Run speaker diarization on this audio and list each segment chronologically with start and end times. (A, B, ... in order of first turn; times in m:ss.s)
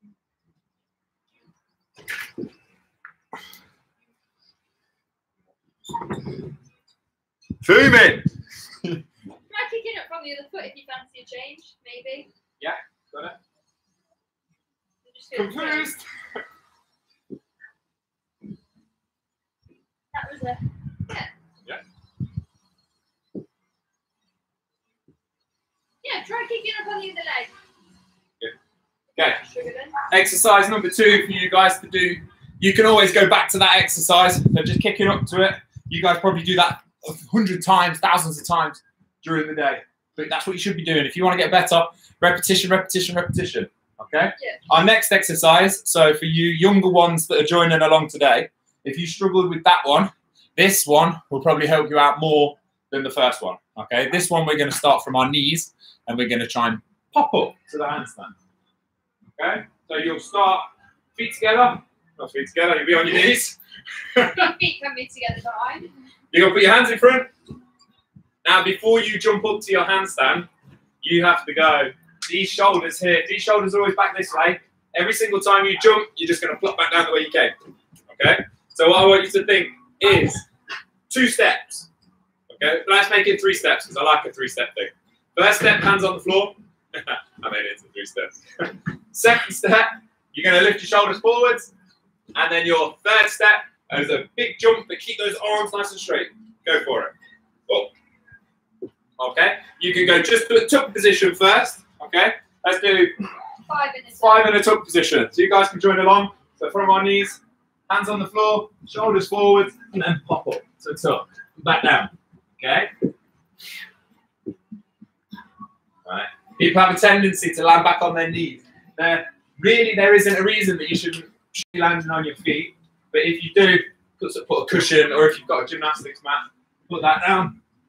0:07.6-0:08.2 A
0:09.5-0:12.3 B
0:12.6-0:13.4 A
0:15.0-0:15.9 B
0:15.3-0:16.0 A
0:20.1-0:21.3 B
0:26.0-0:27.5 B
0:29.2-0:29.4 A
0:29.2-0:29.9 B
0:30.1-0:58.3 A
0:59.4-1:03.6 A
1:04.1-1:04.5 A
1:04.3-1:05.9 B
1:06.3-1:07.3 A
1:08.4-1:10.5 A
1:11.0-1:17.5 A
1:18.1-1:20.4 A
1:21.1-1:21.9 A
1:22.5-1:31.7 A
1:32.3-1:37.1 A
1:39.2-1:43.1 A
1:43.7-1:44.6 B
1:44.2-1:52.9 A
1:56.0-2:07.6 A